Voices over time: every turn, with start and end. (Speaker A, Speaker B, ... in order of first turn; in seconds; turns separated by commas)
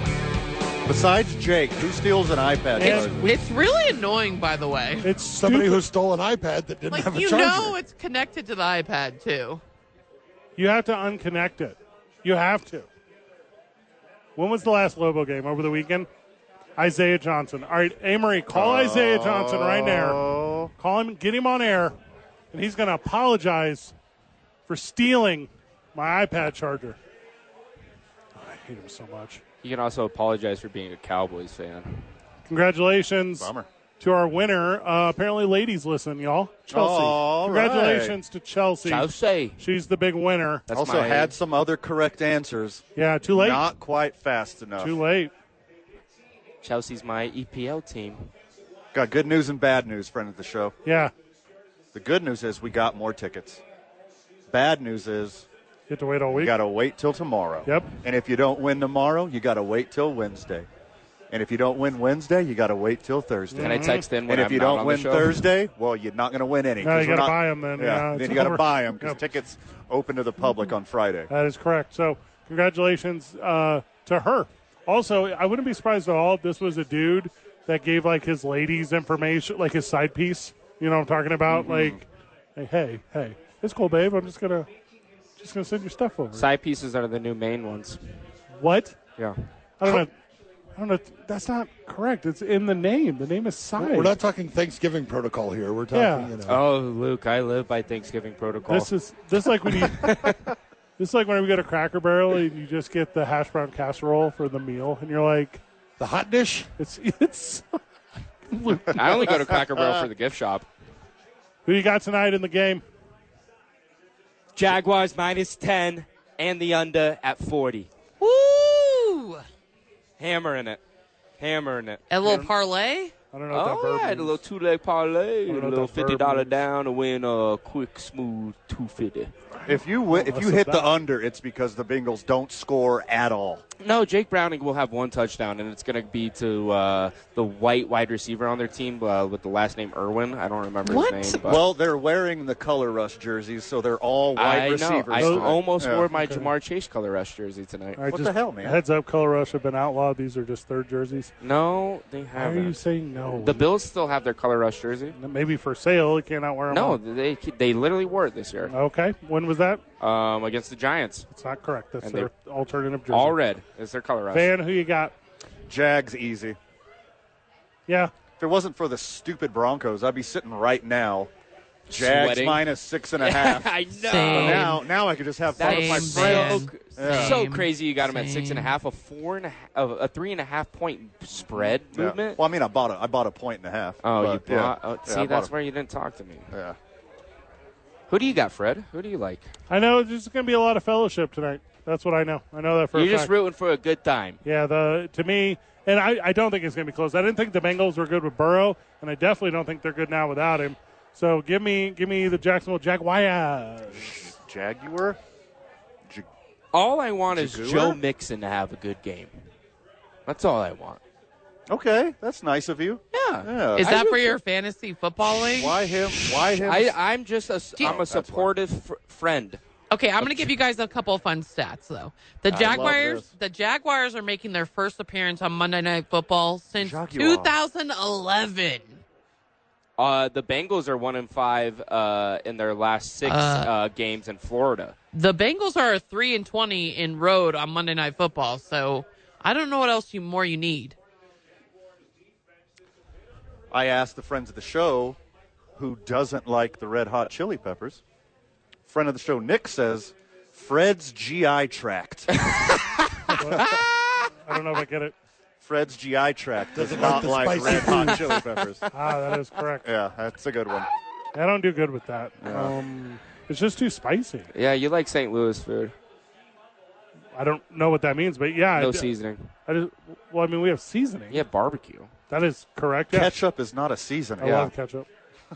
Speaker A: 0.9-3.3, Speaker B: 2.8-5.1, Speaker C: 2.8-3.1, Speaker C: 5.0-5.8, Speaker D: 5.3-7.8, Speaker B: 6.9-9.6, Speaker C: 10.6-12.9, Speaker C: 14.4-16.1, Speaker C: 16.8-21.9, Speaker A: 18.5-20.7, Speaker C: 22.5-23.9, Speaker C: 24.7-27.0, Speaker C: 28.4-29.4, Speaker E: 29.6-32.0, Speaker C: 32.5-40.6, Speaker A: 33.4-33.7, Speaker A: 36.7-38.2, Speaker E: 38.8-39.6, Speaker E: 40.7-41.3, Speaker A: 40.7-45.0, Speaker C: 43.0-43.7, Speaker C: 44.8-45.3, Speaker E: 46.6-48.3, Speaker A: 48.9-50.7, Speaker C: 50.9-51.1, Speaker A: 51.9-53.6, Speaker A: 54.5-55.5, Speaker C: 55.9-56.6, Speaker A: 56.3-60.7, Speaker A: 61.3-71.3, Speaker C: 63.5-64.0, Speaker E: 63.6-65.5, Speaker C: 66.8-69.2, Speaker C: 71.3-84.7, Speaker A: 81.5-82.0, Speaker C: 85.4-86.5, Speaker E: 86.3-88.0, Speaker C: 88.6-89.0, Speaker C: 89.8-90.1, Speaker C: 90.8-94.1, Speaker D: 93.8-96.6, Speaker C: 95.9-96.3, Speaker E: 96.5-98.9, Speaker C: 98.7-100.3, Speaker E: 99.7-100.4, Speaker C: 101.0-105.6, Speaker D: 106.0-106.7, Speaker C: 106.8-107.8, Speaker C: 108.5-109.4, Speaker E: 108.9-110.7, Speaker C: 111.7-112.8, Speaker E: 114.5-117.9, Speaker B: 118.2-119.4, Speaker E: 120.2-120.8, Speaker E: 121.4-122.0, Speaker B: 122.1-123.1, Speaker C: 122.2-122.5, Speaker C: 123.3-124.4, Speaker E: 123.5-129.3, Speaker C: 125.5-126.5, Speaker C: 129.6-131.0, Speaker A: 129.7-133.6, Speaker E: 133.8-141.6, Speaker B: 140.8-141.4, Speaker A: 141.4-146.1, Speaker E: 144.4-148.0, Speaker C: 145.2-145.6, Speaker C: 146.1-146.5, Speaker C: 148.0-151.3, Speaker A: 148.1-148.8, Speaker E: 151.4-152.8, Speaker C: 152.4-153.7, Speaker E: 153.3-155.2, Speaker C: 155.1-157.0, Speaker E: 156.7-158.7, Speaker C: 158.7-159.8, Speaker E: 160.0-161.3, Speaker C: 161.3-163.4, Speaker E: 162.0-162.3, Speaker E: 163.1-164.5, Speaker C: 164.3-165.1, Speaker A: 165.7-166.6, Speaker C: 167.9-168.1, Speaker A: 168.4-171.3, Speaker E: 171.9-172.7, Speaker A: 171.9-177.4, Speaker E: 173.2-174.8, Speaker B: 174.0-174.8, Speaker E: 175.6-182.4, Speaker B: 175.6-178.7, Speaker A: 181.4-185.5, Speaker E: 184.0-186.5, Speaker A: 186.5-186.8, Speaker E: 188.1-189.5, Speaker C: 189.7-193.3, Speaker E: 192.9-194.4, Speaker C: 194.4-204.2, Speaker A: 204.0-205.2, Speaker E: 206.7-209.3, Speaker A: 207.3-208.0, Speaker E: 210.3-211.0, Speaker A: 211.7-213.9, Speaker E: 213.1-214.4, Speaker B: 213.7-215.8, Speaker A: 215.3-217.0, Speaker E: 216.3-219.6, Speaker A: 217.8-218.5, Speaker B: 219.9-229.0, Speaker E: 220.2-220.6, Speaker A: 222.5-223.3, Speaker A: 226.8-227.6, Speaker E: 230.0-234.9, Speaker B: 233.2-233.7, Speaker B: 235.1-241.0, Speaker A: 243.7-245.2, Speaker A: 245.8-248.0, Speaker A: 248.9-252.4, Speaker E: 252.4-253.9, Speaker C: 253.3-253.8, Speaker A: 253.3-253.8, Speaker C: 254.3-255.2, Speaker A: 255.6-258.9, Speaker D: 256.8-258.2, Speaker E: 258.4-259.1, Speaker C: 258.9-259.9, Speaker A: 259.8-260.9, Speaker C: 261.3-264.5, Speaker A: 262.4-262.8, Speaker E: 264.5-265.9, Speaker C: 267.4-269.1, Speaker E: 268.8-269.5, Speaker C: 269.7-271.4, Speaker E: 271.3-272.1, Speaker C: 272.3-273.3, Speaker A: 273.1-274.7, Speaker C: 274.4-275.1